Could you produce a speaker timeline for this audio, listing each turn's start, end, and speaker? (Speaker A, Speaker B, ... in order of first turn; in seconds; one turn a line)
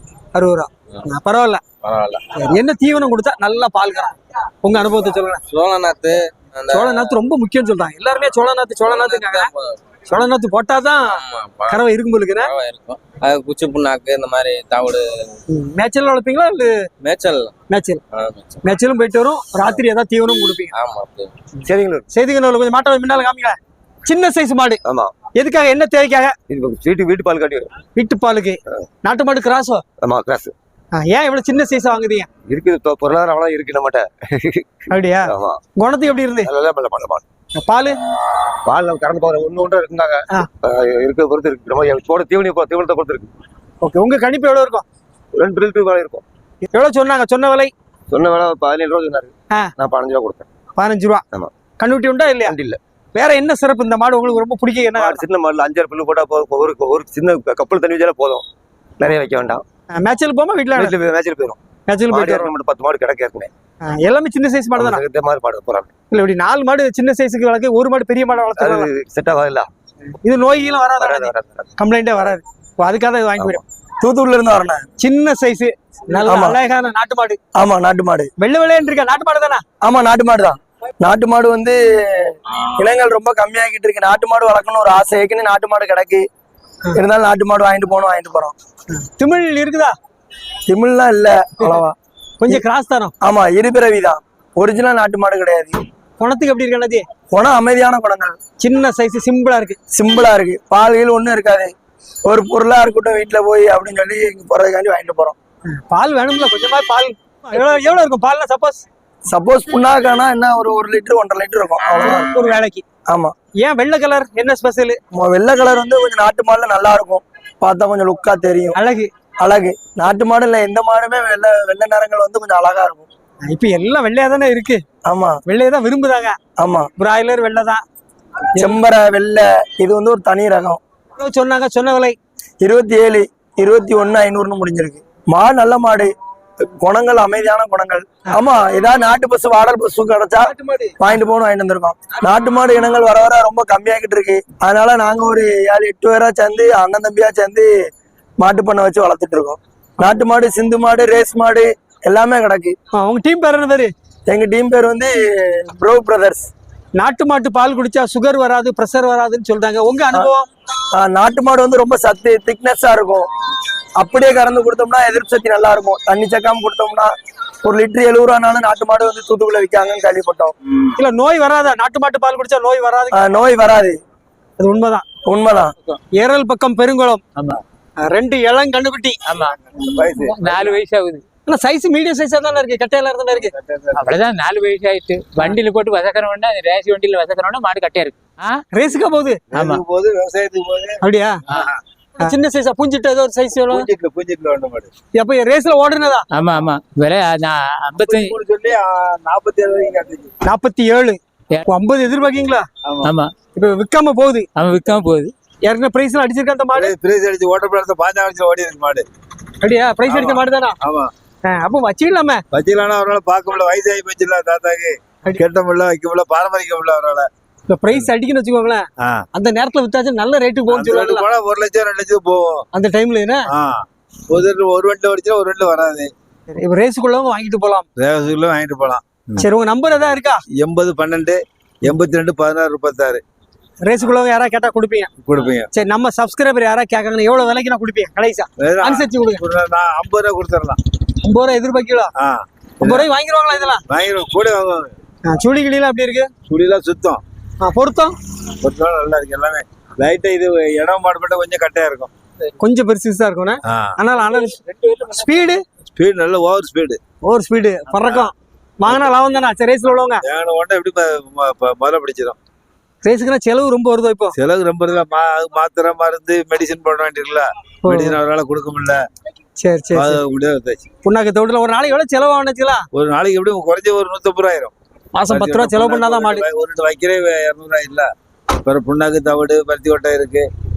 Speaker A: 0.3-1.6
Speaker B: 1.8-2.2
Speaker A: 2.4-5.4
Speaker B: 5.5-7.1
Speaker A: 6.7-9.5
Speaker B: 8.8-9.8
Speaker A: 10.1-11.2
Speaker B: 11.1-11.8
Speaker A: 11.7-12.5
Speaker B: 12.4-15.3
Speaker A: 15.5-16.9
Speaker B: 17.0-17.5
Speaker A: 17.7-18.0
Speaker B: 18.1-18.6
Speaker A: 18.6-20.7
Speaker B: 20.8-21.3
Speaker C: 21.7-22.1
Speaker A: 22.1-24.8
Speaker C: 24.9-25.1
Speaker A: 25.4-26.3
Speaker C: 26.5-27.7
Speaker A: 28.0-29.8
Speaker C: 30.0-30.5
Speaker A: 30.9-32.3
Speaker C: 32.5-34.7
Speaker A: 34.9-36.5
Speaker C: 35.3-35.6
Speaker C: 36.5-37.2
Speaker A: 37.6-38.0
Speaker C: 38.6-43.3
Speaker A: 43.8-44.8
Speaker C: 45.3-46.2
Speaker A: 46.7-47.7
Speaker C: 48.1-50.5
Speaker A: 50.8-51.2
Speaker A: 51.8-52.6
Speaker C: 52.5-52.8
Speaker A: 53.1-55.3
Speaker C: 55.0-58.4
Speaker C: 59.0-59.6
Speaker A: 60.0-61.0
Speaker C: 60.8-61.6
Speaker A: 61.9-62.5
Speaker C: 62.1-63.5
Speaker A: 63.9-65.0
Speaker C: 64.8-65.9
Speaker A: 66.1-68.9
Speaker C: 68.6-69.7
Speaker A: 70.2-73.6
Speaker C: 71.0-71.7
Speaker D: 74.0-74.9
Speaker A: 75.0-77.4
Speaker D: 76.2-76.6
Speaker D: 77.5-78.3
Speaker A: 78.4-79.6
Speaker D: 79.8-86.3
Speaker D: 86.9-88.5
Speaker A: 89.0-89.9
Speaker D: 90.7-92.0
Speaker A: 92.4-93.1
Speaker D: 93.2-95.8
Speaker A: 96.2-97.0
Speaker D: 97.3-98.4
Speaker A: 98.6-99.8
Speaker D: 99.9-101.7
Speaker D: 102.3-105.4
Speaker A: 105.8-108.8
Speaker D: 109.3-112.3
Speaker A: 112.0-112.8
Speaker D: 113.1-113.3
Speaker A: 113.6-115.0
Speaker D: 115.1-118.8
Speaker A: 118.8-119.1
Speaker D: 119.4-123.1
Speaker A: 123.5-124.8
Speaker D: 125.0-125.4
Speaker A: 125.5-126.4
Speaker D: 126.6-126.9
Speaker A: 127.0-127.8
Speaker D: 128.6-130.8
Speaker A: 131.2-132.2
Speaker D: 132.6-136.1
Speaker D: 136.8-147.7
Speaker A: 140.5-140.9
Speaker D: 148.4-152.8
Speaker A: 152.9-153.9
Speaker D: 154.3-156.5
Speaker A: 157.0-160.5
Speaker D: 160.9-163.3
Speaker D: 164.0-167.1
Speaker D: 167.6-170.5
Speaker A: 171.0-173.2
Speaker D: 173.1-174.0
Speaker A: 174.6-175.1
Speaker D: 175.3-175.7
Speaker A: 176.2-177.2
Speaker A: 178.0-179.2
Speaker E: 179.3-179.6
Speaker F: 179.8-180.8
Speaker E: 180.2-181.2
Speaker A: 181.5-183.5
Speaker F: 183.6-184.2
Speaker E: 184.0-188.6
Speaker A: 188.7-189.4
Speaker F: 189.5-191.8
Speaker E: 189.5-189.8
Speaker A: 191.0-191.4
Speaker A: 192.2-193.9
Speaker F: 193.7-194.9
Speaker A: 195.1-196.2
Speaker E: 196.3-198.3
Speaker F: 197.9-200.3
Speaker A: 200.4-202.7
Speaker F: 202.9-203.1
Speaker E: 203.0-203.3
Speaker A: 203.6-204.5
Speaker E: 204.6-205.3
Speaker A: 205.7-206.9
Speaker F: 206.7-209.1
Speaker A: 209.6-210.8
Speaker F: 210.1-211.1
Speaker A: 211.5-212.4
Speaker F: 212.5-217.3
Speaker A: 217.7-221.3
Speaker F: 220.7-222.6
Speaker A: 222.7-223.4
Speaker F: 223.5-226.1
Speaker A: 226.5-227.9
Speaker F: 228.0-229.0
Speaker A: 229.4-230.4
Speaker F: 230.6-233.2
Speaker A: 233.8-235.1
Speaker F: 235.2-235.7
Speaker A: 235.7-239.4
Speaker F: 238.6-240.8
Speaker A: 241.2-242.1
Speaker F: 242.2-243.1
Speaker A: 242.8-243.8
Speaker F: 243.9-244.9
Speaker A: 245.3-246.3
Speaker F: 246.5-247.2
Speaker A: 247.6-248.1
Speaker F: 248.6-252.1
Speaker A: 252.6-255.6
Speaker F: 255.9-257.0
Speaker A: 257.2-260.2
Speaker F: 260.2-262.4
Speaker A: 263.0-264.3
Speaker F: 264.4-269.0
Speaker A: 267.8-268.2
Speaker A: 269.6-270.2
Speaker F: 269.9-270.8
Speaker A: 271.0-272.9
Speaker F: 272.9-274.7
Speaker A: 275.1-276.4
Speaker F: 275.3-278.1
Speaker F: 278.6-280.5